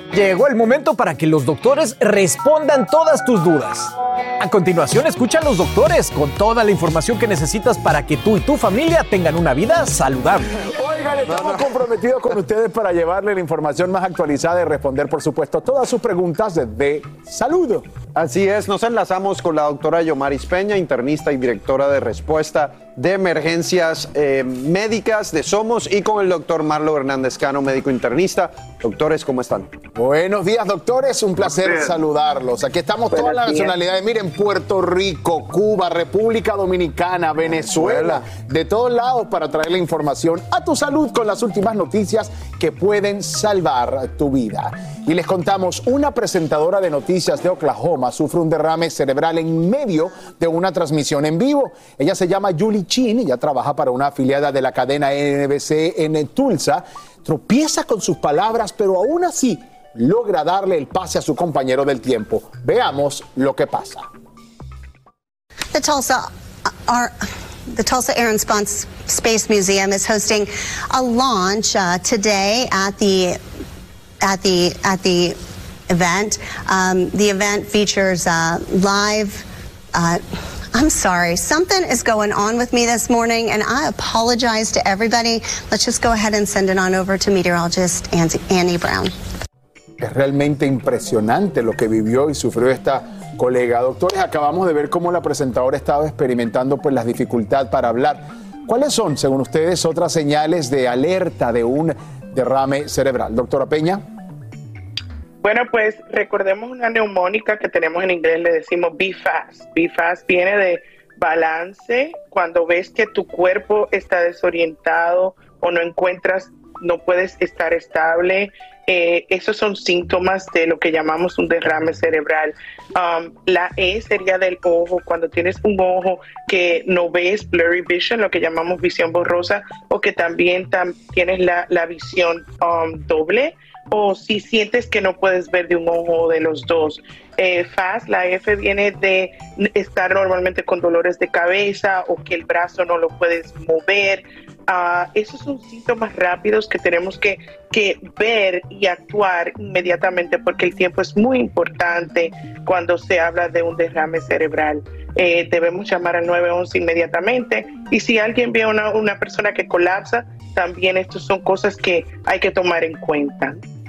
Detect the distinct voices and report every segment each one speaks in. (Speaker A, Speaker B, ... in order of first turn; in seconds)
Speaker A: 0.1-10.5
Speaker B: 10.8-17.9, 29.9-64.1, 90.0-104.0
Speaker C: 11.2-11.7, 18.1-29.7, 37.7-38.2
Speaker D: 65.7-73.4, 74.2-89.1
Speaker E: 105.4-163.6